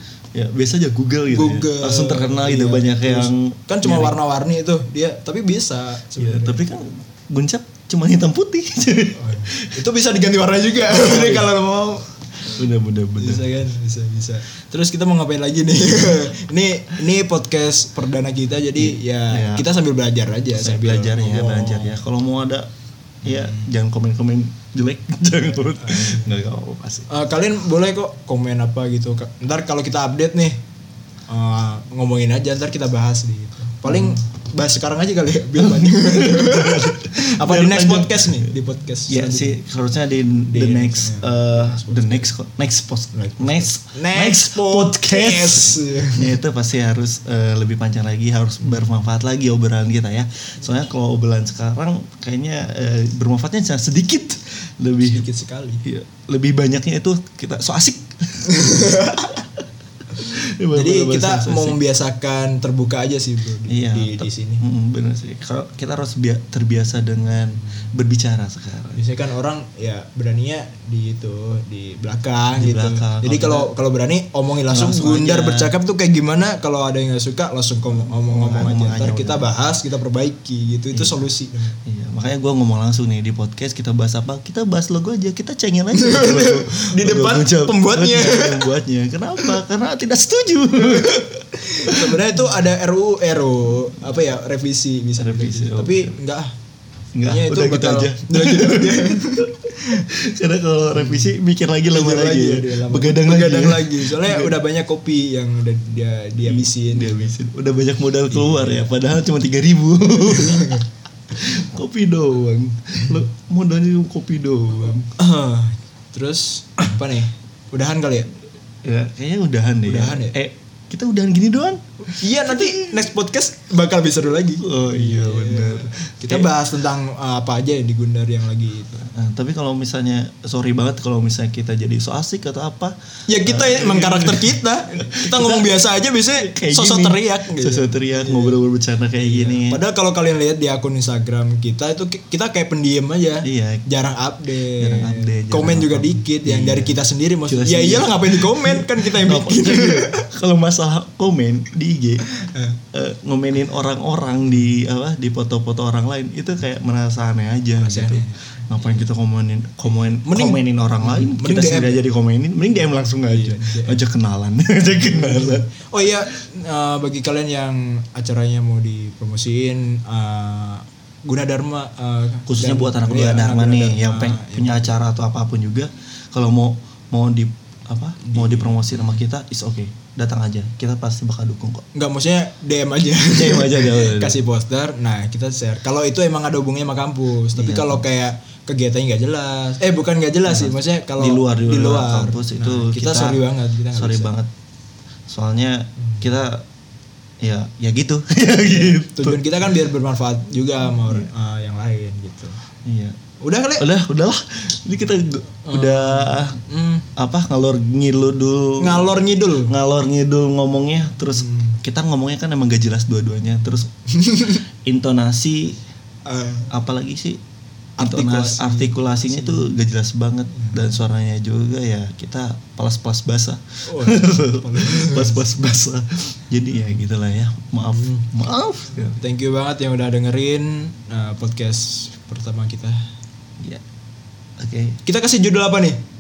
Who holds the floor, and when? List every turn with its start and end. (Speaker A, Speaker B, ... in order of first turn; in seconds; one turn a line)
Speaker A: 0.3-4.2
Speaker B: 1.3-6.7
Speaker A: 6.2-9.8
Speaker B: 9.1-12.1
Speaker A: 10.9-11.6
Speaker A: 12.4-13.5
Speaker B: 13.2-22.0
Speaker A: 18.8-19.7
Speaker A: 20.5-22.7
Speaker A: 23.2-27.1
Speaker B: 23.3-23.6
Speaker B: 25.8-26.3
Speaker B: 27.1-30.6
Speaker B: 31.3-39.6
Speaker A: 33.9-34.2
Speaker A: 35.6-38.5
Speaker A: 39.1-55.2
Speaker B: 40.5-42.3
Speaker B: 43.1-46.4
Speaker B: 48.6-48.9
Speaker B: 55.0-55.8
Speaker A: 55.8-58.8
Speaker B: 58.5-59.4
Speaker A: 60.2-61.8
Speaker B: 60.7-64.6
Speaker A: 63.7-69.0
Speaker B: 68.9-81.8
Speaker A: 72.5-73.7
Speaker A: 74.7-75.7
Speaker A: 78.0-79.5
Speaker A: 80.9-81.3
Speaker A: 81.8-92.5
Speaker B: 86.0-88.8
Speaker B: 90.8-96.5
Speaker A: 95.2-96.2
Speaker A: 97.2-104.6
Speaker B: 97.2-100.0
Speaker B: 100.9-101.3
Speaker B: 101.9-107.3
Speaker A: 106.4-115.1
Speaker B: 108.3-108.9
Speaker B: 110.2-110.8
Speaker B: 115.1-118.3
Speaker A: 118.8-123.1
Speaker B: 119.8-120.3
Speaker B: 122.1-129.1
Speaker A: 124.6-126.5
Speaker A: 129.0-139.8
Speaker B: 133.3-138.6
Speaker B: 139.2-150.3
Speaker A: 143.4-143.8
Speaker A: 144.8-152.3
Speaker B: 152.4-152.8
Speaker A: 152.9-165.7
Speaker B: 157.8-159.0
Speaker B: 159.8-162.1
Speaker B: 163.2-164.0
Speaker B: 164.9-174.9
Speaker A: 172.5-181.8
Speaker B: 178.2-179.2
Speaker B: 181.9-194.3
Speaker A: 183.3-184.4
Speaker A: 187.5-188.0
Speaker A: 190.4-194.5
Speaker A: 195.3-196.7
Speaker A: 197.4-199.7
Speaker B: 198.6-202.6
Speaker A: 202.8-203.2
Speaker B: 203.4-203.8
Speaker A: 203.8-206.6
Speaker B: 205.7-207.1
Speaker A: 207.2-213.9
Speaker B: 208.8-209.7
Speaker B: 211.3-211.8
Speaker B: 214.1-214.6
Speaker A: 214.8-215.8
Speaker B: 216.2-216.8
Speaker A: 216.7-217.4
Speaker B: 218.0-219.7
Speaker A: 218.0-229.2
Speaker B: 220.5-220.9
Speaker B: 223.8-225.4
Speaker B: 227.9-228.3
Speaker B: 229.2-233.0
Speaker A: 234.6-235.0
Speaker B: 235.0-236.0